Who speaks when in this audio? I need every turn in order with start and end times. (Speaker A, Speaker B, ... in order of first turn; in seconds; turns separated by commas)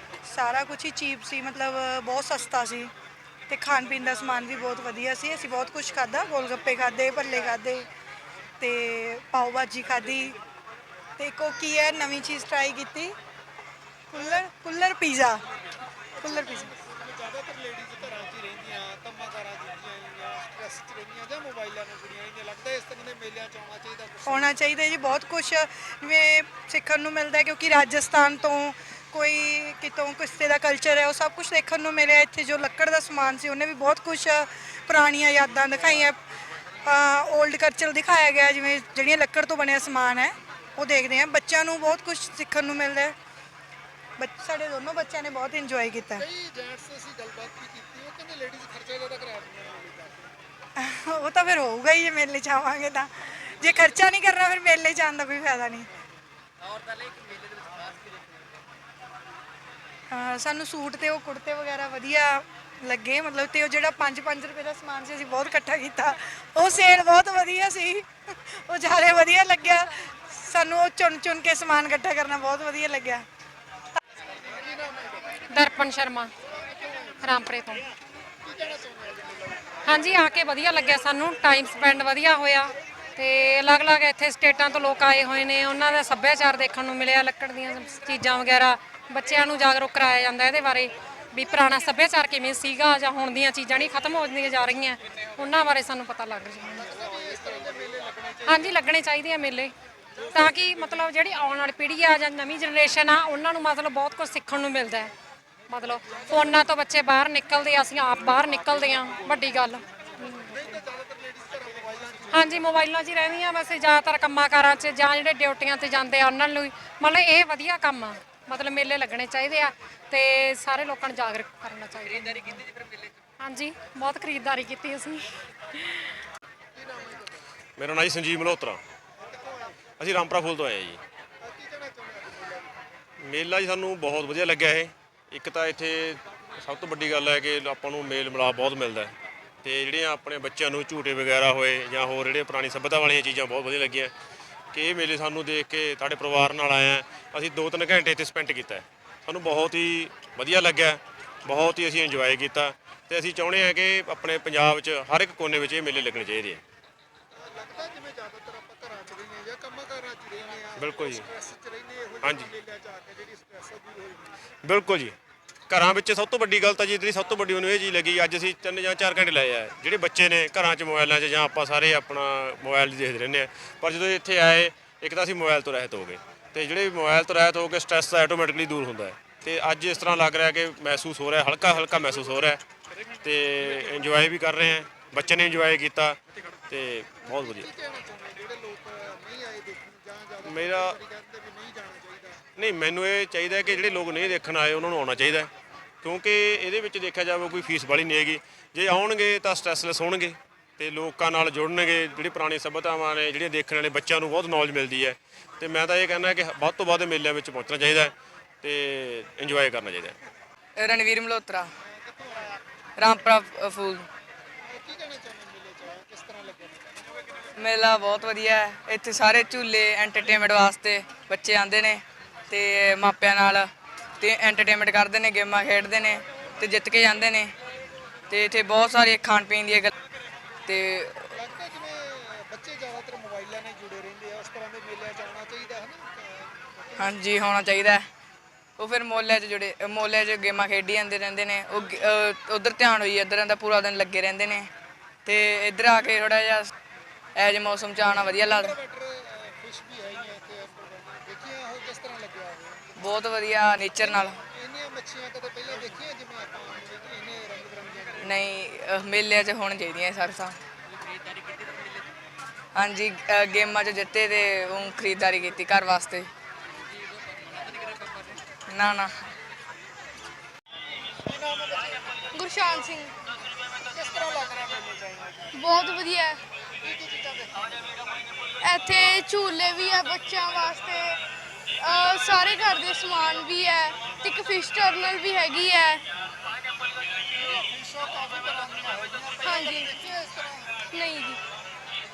Speaker A: 0.2-2.9, Speaker A: 3.5-7.9, Speaker A: 8.6-10.4, Speaker A: 11.2-13.2, Speaker A: 14.1-15.4, Speaker B: 16.2-24.5, Speaker A: 16.2-16.7, Speaker A: 24.2-36.2, Speaker A: 36.8-43.1, Speaker A: 44.2-46.3, Speaker B: 46.2-50.3, Speaker A: 50.8-55.9, Speaker A: 60.1-73.3, Speaker B: 74.3-75.4, Speaker C: 75.5-76.3, Speaker B: 76.7-77.1, Speaker C: 77.2-77.9, Speaker B: 78.4-80.1, Speaker C: 79.9-96.9, Speaker B: 96.8-98.7, Speaker C: 98.5-99.7, Speaker C: 100.3-105.1, Speaker C: 105.7-110.6, Speaker B: 106.1-106.5, Speaker B: 110.5-112.6, Speaker C: 112.3-122.6, Speaker C: 123.4-126.1, Speaker B: 126.7-127.4, Speaker D: 127.8-128.8, Speaker B: 129.2-129.9, Speaker D: 129.9-131.0, Speaker B: 131.4-132.7, Speaker D: 133.2-144.1, Speaker D: 144.7-156.6, Speaker B: 157.3-164.4, Speaker D: 160.8-161.3, Speaker D: 162.2-162.5, Speaker D: 164.6-165.2, Speaker D: 165.7-182.6, Speaker D: 183.2-186.2, Speaker D: 186.7-187.7, Speaker B: 187.3-192.4, Speaker D: 190.4-191.0, Speaker D: 192.6-195.5, Speaker D: 196.0-210.2, Speaker E: 210.8-211.7, Speaker B: 211.8-212.6, Speaker E: 213.0-214.1, Speaker B: 214.6-217.0, Speaker E: 217.6-223.7, Speaker E: 224.2-227.5, Speaker E: 228.3-229.9, Speaker E: 230.7-231.2, Speaker B: 231.3-237.3, Speaker E: 237.0-238.1, Speaker E: 238.8-244.7, Speaker E: 245.2-246.7, Speaker E: 247.4-248.8, Speaker B: 248.0-253.2, Speaker E: 253.0-254.4, Speaker B: 253.9-258.5, Speaker E: 258.2-260.6, Speaker E: 262.7-266.3, Speaker E: 268.7-269.1, Speaker B: 271.2-272.2, Speaker F: 272.3-273.1, Speaker B: 273.9-275.5, Speaker F: 275.5-276.4, Speaker B: 276.8-278.0, Speaker F: 278.6-281.2, Speaker F: 281.8-286.0, Speaker B: 287.4-290.9, Speaker F: 289.4-289.9, Speaker F: 290.9-291.4